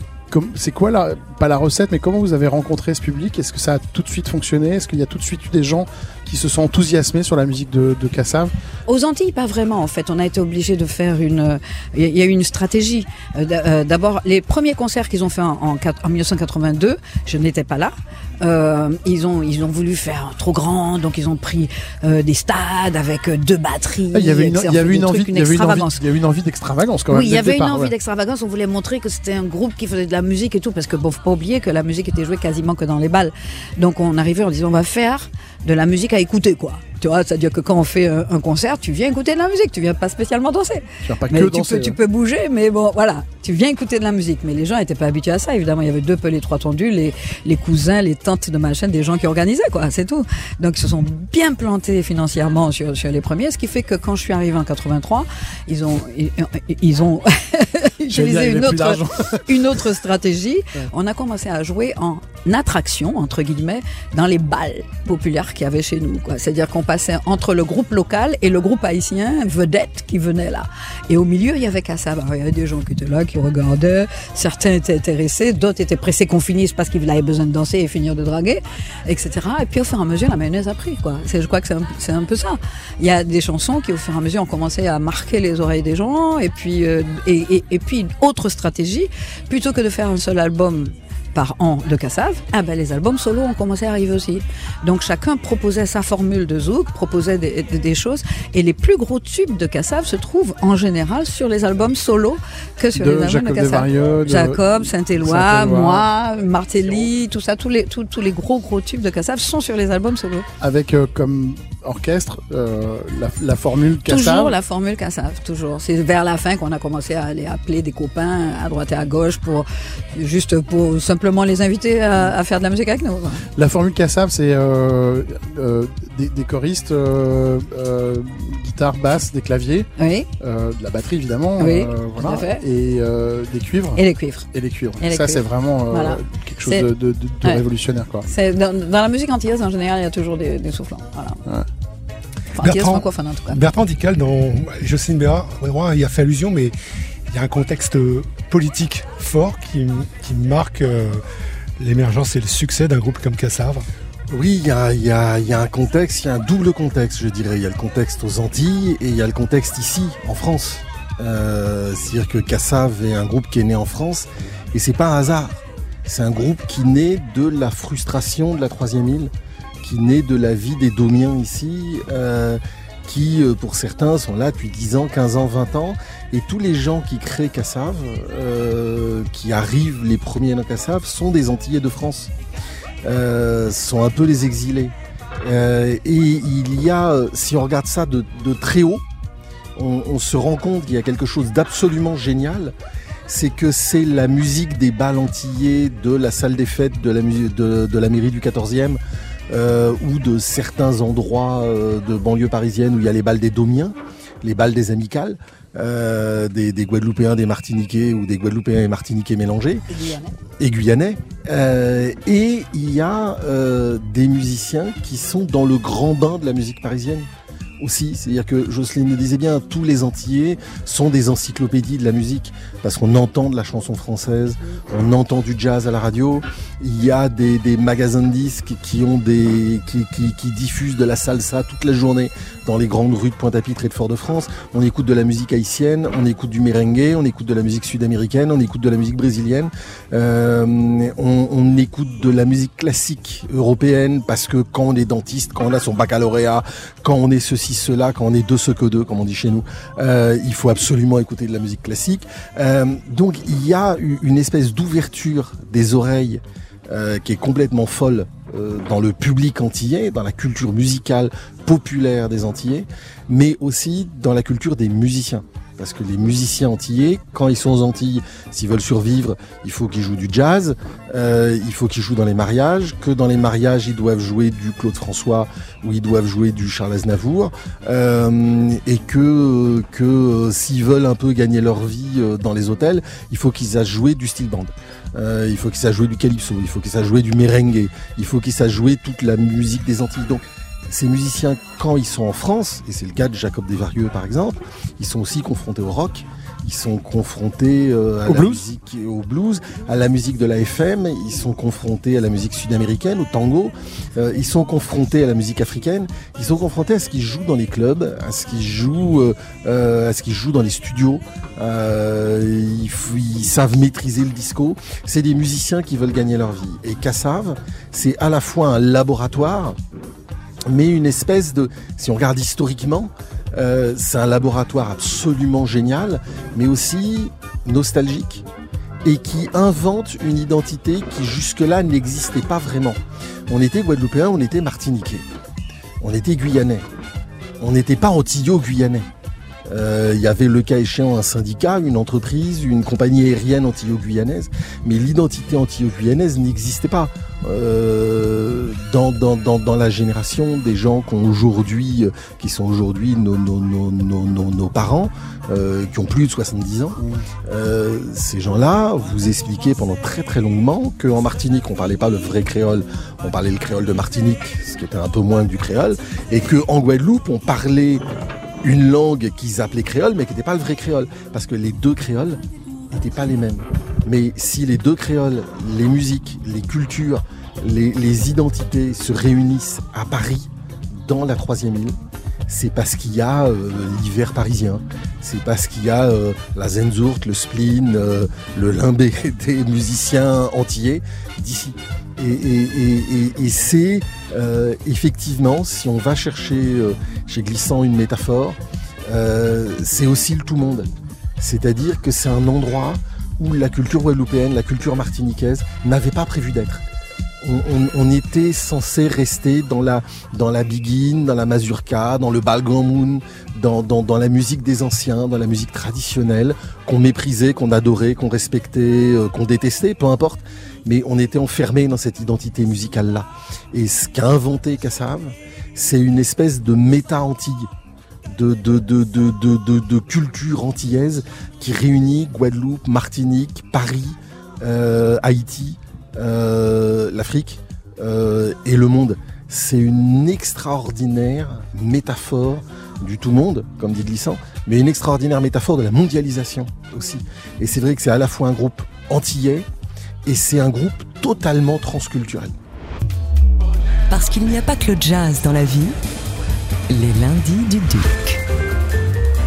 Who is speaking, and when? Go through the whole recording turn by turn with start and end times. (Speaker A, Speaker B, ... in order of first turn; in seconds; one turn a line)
Speaker A: 0.3-8.5
Speaker B: 8.9-26.0
Speaker A: 24.1-27.9
Speaker B: 27.1-110.5
Speaker A: 41.0-42.0
Speaker A: 58.1-59.9
Speaker A: 102.9-106.1
Speaker A: 110.6-114.5
Speaker B: 114.1-123.5
Speaker A: 123.6-134.0
Speaker B: 130.0-130.3
Speaker B: 131.6-132.6
Speaker B: 134.0-134.5
Speaker A: 134.5-138.3
Speaker B: 135.0-136.9
Speaker B: 138.3-141.4
Speaker B: 142.6-143.6
Speaker C: 142.6-146.7
Speaker C: 147.3-151.2
Speaker C: 151.8-153.9
Speaker D: 154.3-169.3
Speaker D: 169.8-182.3
Speaker D: 183.1-189.0
Speaker D: 189.8-192.8
Speaker D: 193.3-209.8
Speaker B: 209.9-210.3
Speaker D: 210.6-319.8
Speaker A: 298.2-298.6
Speaker D: 320.7-328.5
Speaker D: 329.1-335.3
Speaker D: 336.0-336.8
Speaker D: 337.6-339.1
Speaker D: 339.7-368.0
Speaker A: 357.0-357.2
Speaker D: 368.6-380.5
Speaker D: 381.0-382.0
Speaker D: 382.5-406.8
Speaker D: 407.4-427.7
Speaker D: 428.3-449.7
Speaker D: 450.2-452.5
Speaker E: 454.1-456.0
Speaker E: 456.9-458.4